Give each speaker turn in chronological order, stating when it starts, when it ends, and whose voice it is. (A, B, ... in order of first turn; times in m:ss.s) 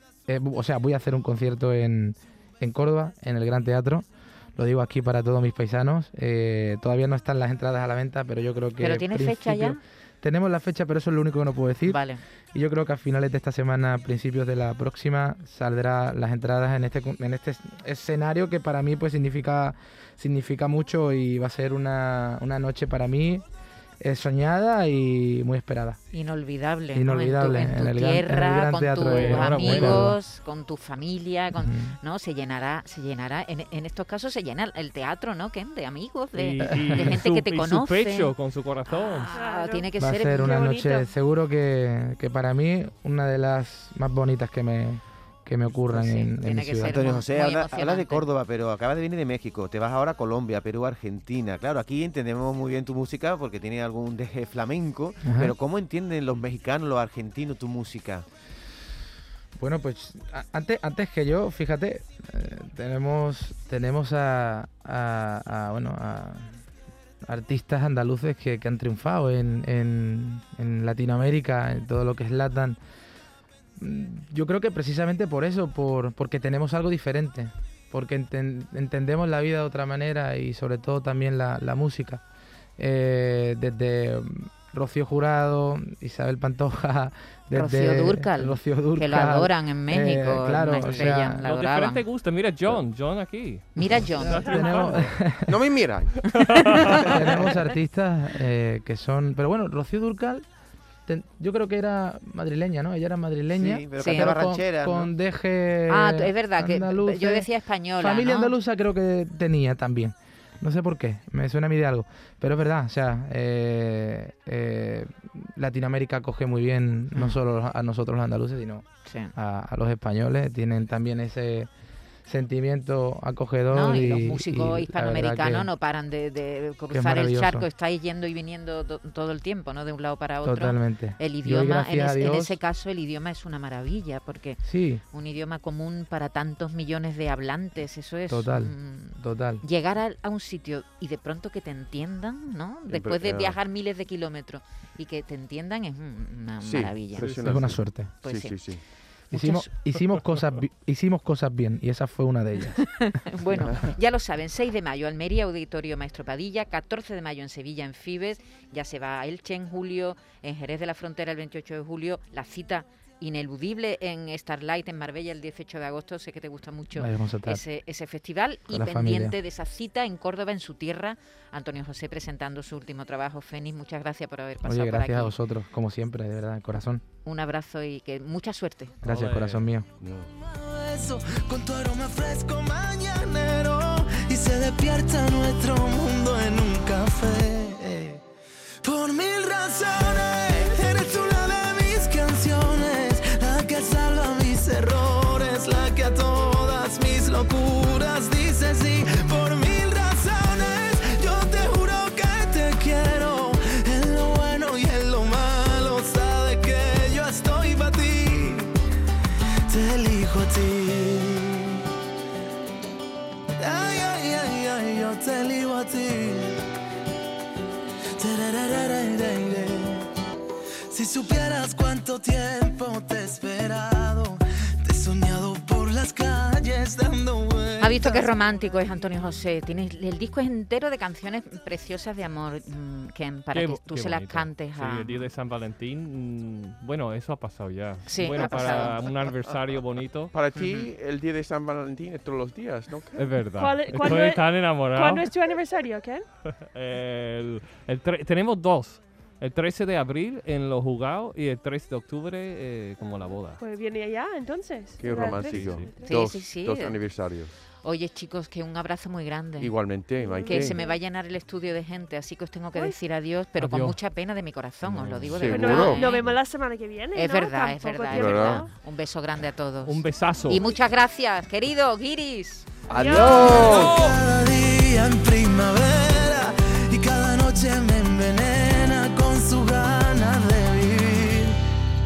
0:00.3-0:23.4 A
0:08.8-0:09.8 B
0:11.8-0:12.2 B
0:24.0-0:26.0 A
0:26.1-0:38.4 B
0:26.9-0:30.2 A
0:29.1-0:30.1 C
0:31.6-0:32.0 A
0:36.3-0:39.3 C
0:36.8-0:37.2 A
0:38.9-0:40.7 B
0:39.3-0:41.1 D
0:40.0-0:47.0 A
0:45.9-0:48.2 B
0:46.9-0:58.2 E
0:55.2-0:55.5 A
0:59.6-1:06.6 A
1:07.2-1:12.8 A
1:13.8-1:22.2 A
1:22.8-1:31.4 A
1:27.5-1:32.0 B
1:30.8-1:35.2 C
1:33.8-1:34.7 B
1:33.9-1:35.6 A
1:35.5-1:36.2 F
1:36.3-1:37.2 C
1:36.9-1:40.4 A
1:41.1-1:47.5 A
1:43.5-1:45.1 E
1:44.0-1:44.3 B
1:45.9-1:48.6 B
1:48.0-2:01.7 A
1:59.0-1:59.3 B
2:02.3-2:05.7 A
2:03.7-2:27.3 B
2:06.9-2:07.7 A
2:10.4-2:12.6 A
2:14.6-2:15.0 A
2:18.3-2:19.6 A
2:22.9-2:23.6 F
2:26.6-2:28.8 F
2:27.2-2:27.6 C
2:27.4-2:28.2 A
2:28.2-2:28.6 B
2:29.3-2:29.7 B
2:29.3-2:32.9 A
2:32.8-2:55.4 B
2:47.0-2:47.6 A
2:48.7-2:49.4 A
2:54.6-2:57.0 A
2:57.2-2:59.0 B
2:59.0-2:59.7 C
2:59.0-2:59.9 A
3:00.0-3:00.3 F
3:00.4-3:08.2 G
3:08.8-3:28.8 G
3:29.7-3:31.9 G
3:33.6-3:36.6 G
3:38.2-3:40.1 G
3:40.9-3:48.3 G
3:47.8-3:55.3 B
3:53.5-4:00.3 C
3:58.1-3:59.1 B
4:00.3-4:03.3 F
4:00.6-4:00.9 B
4:03.2-4:05.4 C
4:03.6-4:06.3 D
4:06.6-4:13.6 C
4:13.6-4:16.2 D
4:15.0-4:17.5 F
4:15.3-4:15.9 C
4:16.0-4:17.0 B
4:17.8-4:19.8 B
4:19.6-4:20.8 F
4:20.2-4:21.0 D
4:20.5-4:26.4 B
4:23.6-4:24.0 C
4:24.9-4:25.4 C
4:24.9-4:26.1 F
4:25.4-4:28.7 D
4:27.1-4:32.7 B
4:28.1-4:28.6 F
4:29.8-4:30.7 C
4:32.9-4:34.0 F
4:32.9-4:41.6 G
4:32.9-4:33.9 D
4:33.1-4:34.2 C